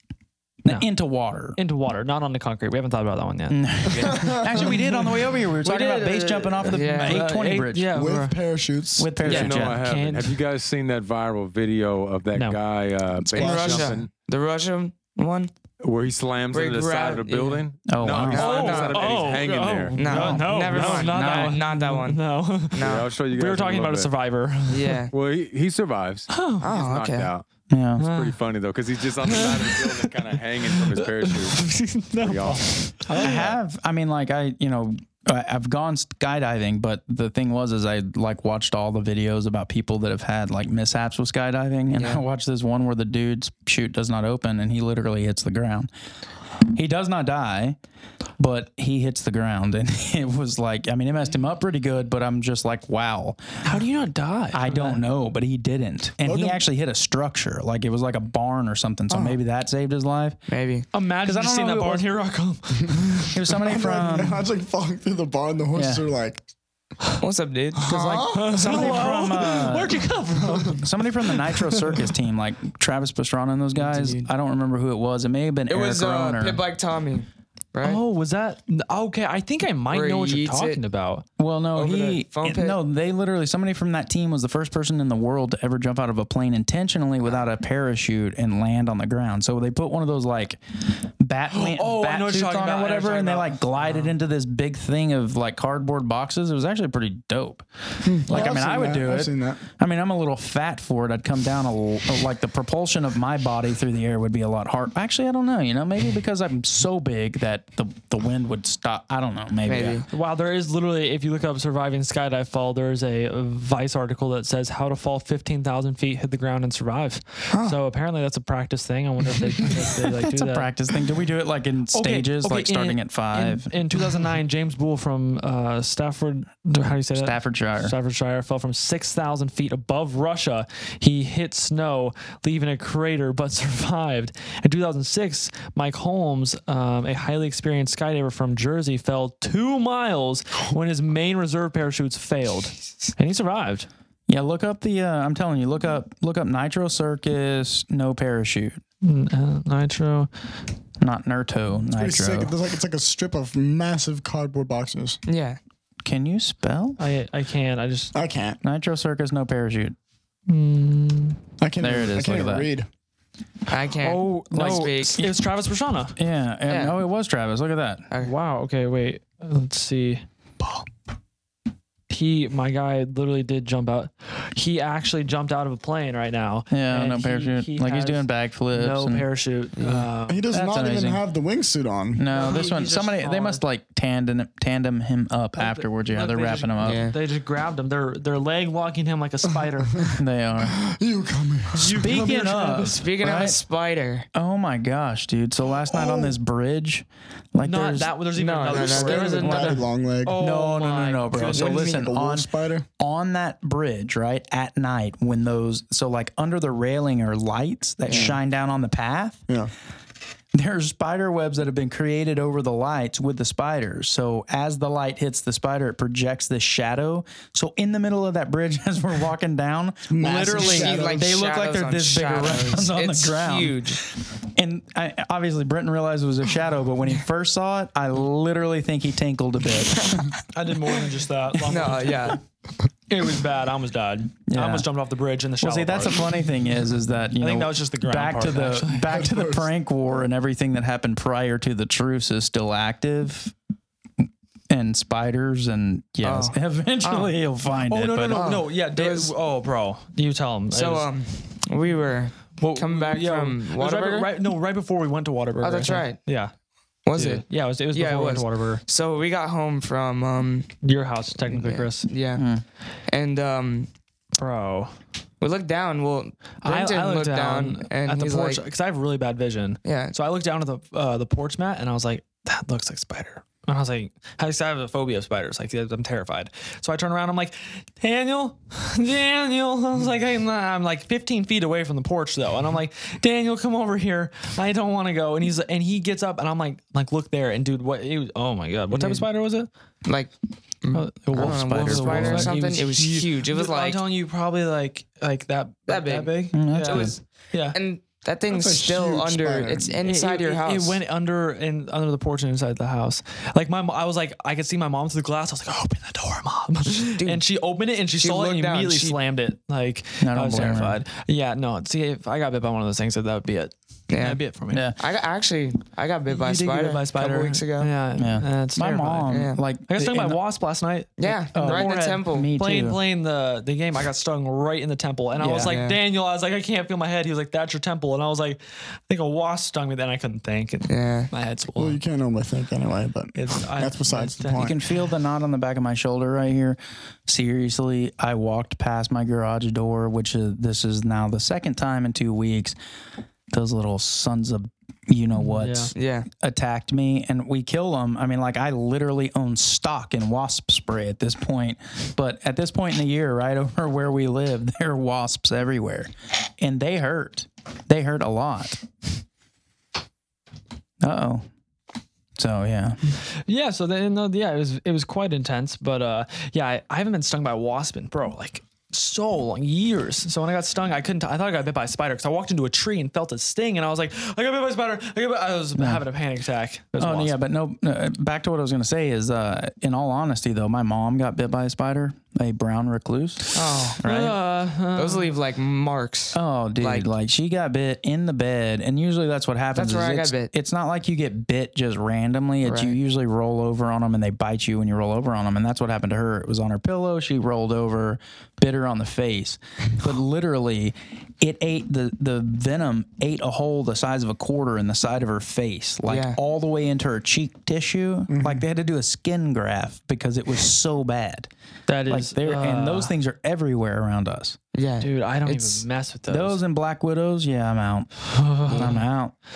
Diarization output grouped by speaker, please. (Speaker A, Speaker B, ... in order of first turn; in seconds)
Speaker A: 0.6-1.6, 3.5-7.9, 9.0-9.8, 17.9-18.5, 20.0-21.7, 27.7-28.0, 33.1-45.9, 46.6-47.8, 48.4-53.6, 54.5-60.4, 61.2-62.1, 63.3-64.4, 65.7-66.0, 68.2-70.1, 70.8-76.6, 81.4-110.0, 120.2-123.7, 127.1-127.9, 144.3-148.8, 151.0-152.5, 156.0-157.0, 158.6-159.9, 161.8-162.7, 164.5-165.3, 166.2-168.1, 176.7-179.2, 180.5-181.2, 182.2-187.1, 190.2-190.8, 191.9-193.6, 194.3-198.1, 199.0-209.5, 210.5-230.3, 234.5-234.9, 235.6-243.5, 244.7-248.5, 262.4-262.6, 291.3-292.5, 296.5-297.1, 310.2-311.0, 314.7-315.0, 318.1-320.4, 321.5-323.0, 334.5-342.8, 343.5-358.8, 361.0-361.4, 362.4-363.0, 375.7-376.0, 377.0-384.4, 386.3-411.5, 412.1-414.6, 416.3-419.3
Speaker B: 1.6-8.4, 9.5-10.4, 13.4-13.8, 18.3-25.0, 26.3-26.7, 28.0-28.4, 29.2-30.1, 30.8-33.5, 53.6-55.0, 60.9-63.4, 68.2-71.8, 73.8-74.3, 77.8-81.2, 91.5-94.1, 110.1-120.7, 121.9-143.9, 149.0-150.3, 157.0-158.1, 160.5-161.4, 164.0-166.2, 168.2-170.2, 172.1-180.4, 182.3-183.6, 185.5-190.2, 191.7-193.0, 197.6-201.8, 208.1-208.3, 230.5-232.4, 233.1-236.4, 237.4-239.2, 247.9-251.1, 252.6-256.5, 257.1-258.8, 260.8-262.1, 264.4-265.0, 266.6-289.7, 290.9-297.8, 300.0-314.8, 316.3-332.0, 333.3-334.8, 345.4-345.9, 363.4-377.4, 383.5-385.3, 411.9-413.1, 415.0-416.6, 418.3-419.0
Speaker C: 4.2-4.6, 7.9-9.6, 13.4-13.9, 56.2-56.6, 63.5-66.4, 67.8-68.7, 98.0-99.6, 151.9-155.2, 158.1-158.6, 161.6-162.9, 180.2-182.2, 190.0-192.4, 195.7-196.3, 198.7-200.4, 201.5-202.8, 220.1-221.3, 239.1-239.7, 298.5-300.0, 331.8-334.8, 408.3-408.6
Speaker D: 6.7-7.3, 9.3-9.5, 13.2-15.5, 16.5-17.6, 18.3-19.4, 19.9-23.1, 24.7-25.1, 26.6-27.3, 42.0-42.2, 59.1-59.4, 60.5-60.9, 67.2-69.2, 75.7-78.0, 79.9-80.8, 81.7-82.8, 109.6-110.0, 117.5-117.8, 155.2-155.6, 163.7-165.2, 166.7-166.9, 179.8-180.1, 186.8-187.2, 192.7-194.3, 198.3-199.7, 201.5-202.0, 208.1-208.3, 220.4-224.0, 229.9-230.3, 231.6-232.4, 246.2-247.3, 248.3-249.3, 250.7-254.3, 255.6-256.3, 257.0-260.8, 261.4-262.5, 263.0-263.9, 265.4-268.6, 269.8-270.1, 288.9-289.2, 290.0-294.0, 295.9-301.0, 307.0-307.4, 308.1-309.2, 314.1-314.4, 315.0-317.9, 319.3-319.6, 321.2-322.5, 325.4-326.0, 330.9-331.3, 345.9-346.3, 383.5-384.0, 384.9-387.1, 389.7-390.5, 392.6-392.9, 406.1-406.4, 414.7-415.8
Speaker E: 9.2-14.1, 15.8-20.0, 22.8-24.1, 25.1-27.4, 28.0-33.2